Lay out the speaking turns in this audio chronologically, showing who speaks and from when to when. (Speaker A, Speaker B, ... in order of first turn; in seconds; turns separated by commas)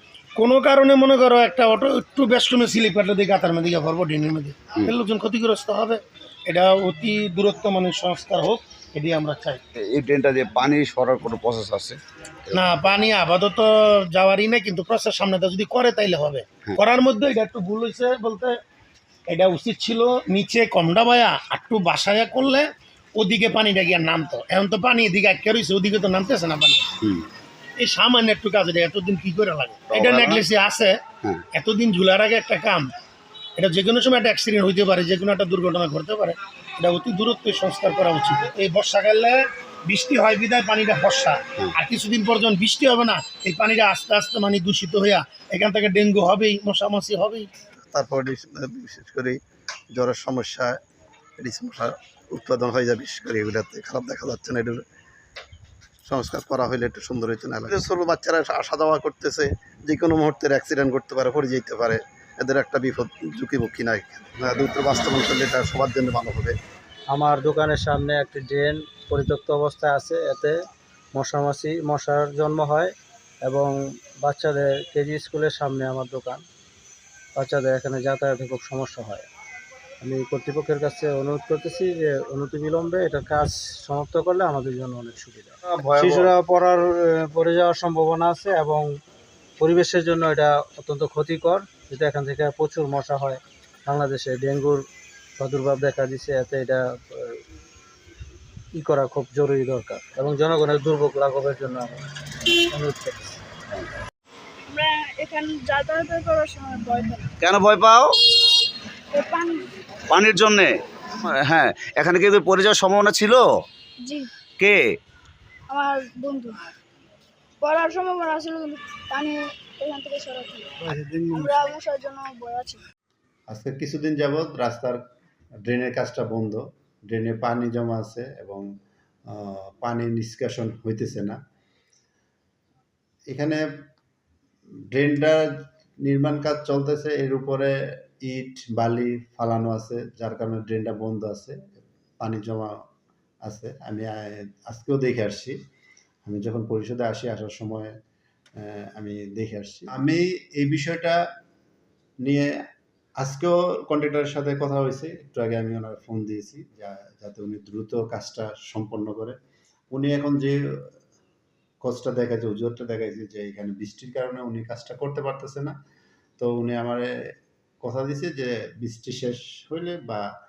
Speaker A: 0.4-9.6, Speaker B: 9.8-12.0, Speaker A: 12.5-18.6, Speaker A: 19.3-26.9, Speaker A: 27.8-31.0, Speaker B: 29.9-30.4, Speaker A: 31.5-32.9, Speaker A: 33.6-47.5, Speaker C: 47.9-49.4, Speaker C: 49.9-50.8, Speaker C: 51.4-54.8, Speaker C: 56.0-66.6, Speaker D: 67.1-70.5, Speaker D: 71.1-76.4, Speaker D: 77.3-79.3, Speaker D: 80.0-88.9, Speaker D: 89.6-94.8, Speaker D: 95.4-97.4, Speaker D: 98.8-102.0, Speaker D: 102.7-103.2, Speaker E: 104.7-107.3, Speaker B: 107.4-108.1, Speaker E: 109.1-109.7, Speaker B: 110.1-110.7, Speaker B: 111.2-113.4, Speaker E: 114.0-114.3, Speaker E: 115.7-116.6, Speaker E: 117.6-120.7, Speaker E: 121.4-122.8, Speaker F: 123.5-125.0, Speaker F: 125.6-128.7, Speaker F: 129.3-131.4, Speaker F: 133.3-133.6, Speaker F: 134.9-141.6, Speaker F: 142.2-142.7, Speaker F: 143.4-145.6, Speaker F: 146.2-147.9, Speaker F: 148.6-151.2, Speaker F: 152.2-152.5, Speaker F: 153.2-159.4, Speaker F: 159.9-160.9, Speaker F: 161.8-165.7, Speaker F: 166.4-167.1, Speaker F: 167.8-170.2